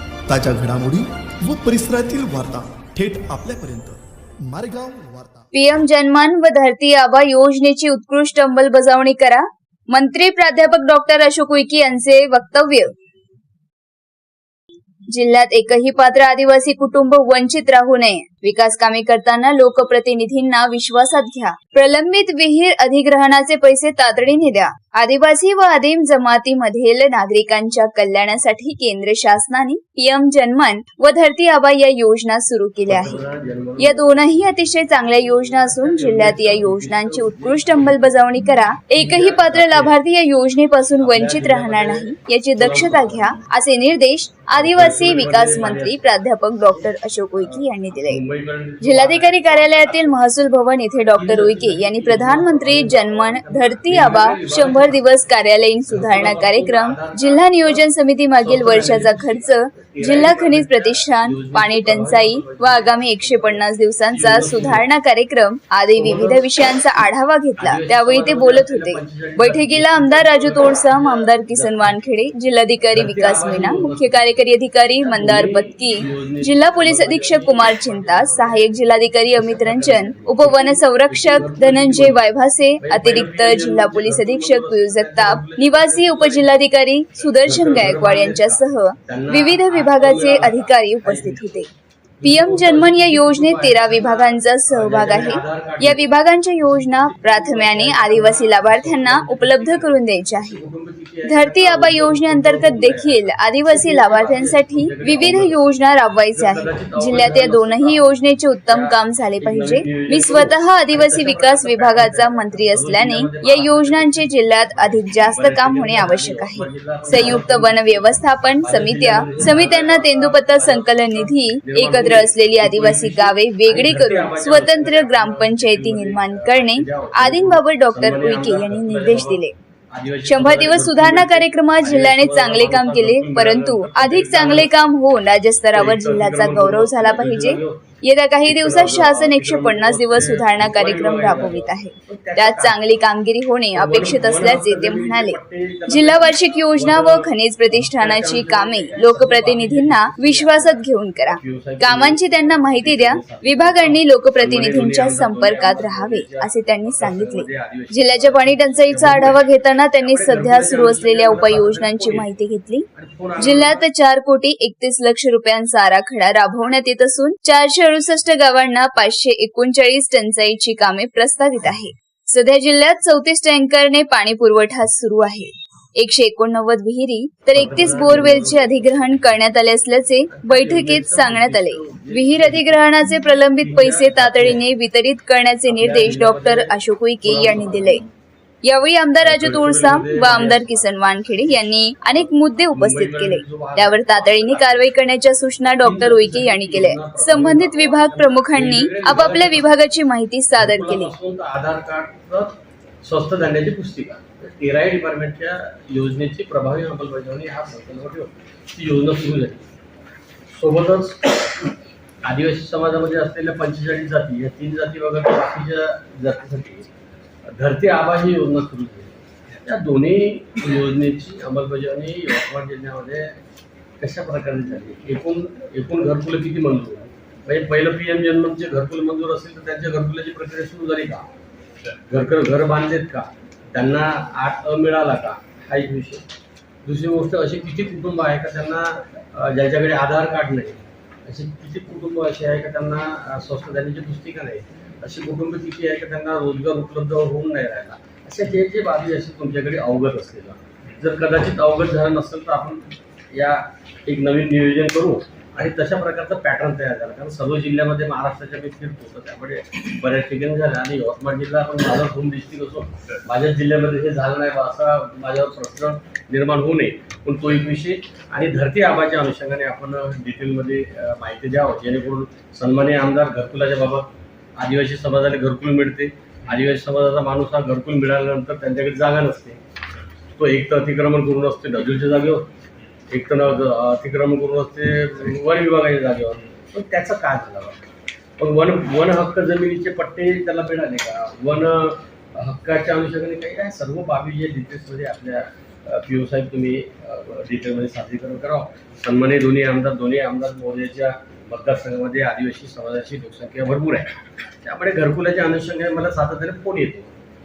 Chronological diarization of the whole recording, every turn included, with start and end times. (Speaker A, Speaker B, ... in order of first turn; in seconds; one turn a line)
Speaker A: 0.3-5.5
Speaker B: 5.5-12.9
Speaker B: 15.1-33.2
Speaker C: 32.9-34.4
Speaker B: 33.8-48.2
Speaker C: 35.0-38.2
Speaker C: 39.0-40.0
Speaker C: 41.0-43.4
Speaker C: 44.5-46.2
Speaker C: 46.7-50.2
Speaker B: 48.8-91.7
Speaker C: 51.1-55.2
Speaker C: 55.9-57.9
Speaker C: 58.4-64.9
Speaker C: 66.0-66.5
Speaker C: 67.6-72.0
Speaker C: 72.9-74.4
Speaker C: 75.0-82.3
Speaker C: 82.8-86.6
Speaker C: 87.4-91.6
Speaker C: 92.2-96.1
Speaker B: 92.2-100.6
Speaker C: 96.7-105.7
Speaker B: 101.2-129.5
Speaker C: 106.3-108.1
Speaker C: 108.7-134.9
Speaker B: 130.2-162.9
Speaker C: 135.7-137.8
Speaker C: 138.4-143.0
Speaker C: 143.7-159.4
Speaker C: 160.0-162.3
Speaker C: 162.9-163.8
Speaker B: 163.4-188.0
Speaker C: 177.6-179.2
Speaker C: 180.3-182.8
Speaker C: 183.6-184.6
Speaker C: 185.7-188.0
Speaker B: 188.7-201.1
Speaker C: 189.2-190.8
Speaker C: 192.7-194.9
Speaker C: 195.8-199.7
Speaker C: 200.6-209.7
Speaker C: 210.5-211.7
Speaker C: 212.2-216.9
Speaker C: 217.6-223.4
Speaker C: 224.0-231.3
Speaker C: 232.1-236.2
Speaker C: 236.8-279.6
Speaker C: 280.4-282.5
Speaker C: 283.1-287.8
Speaker C: 288.4-307.1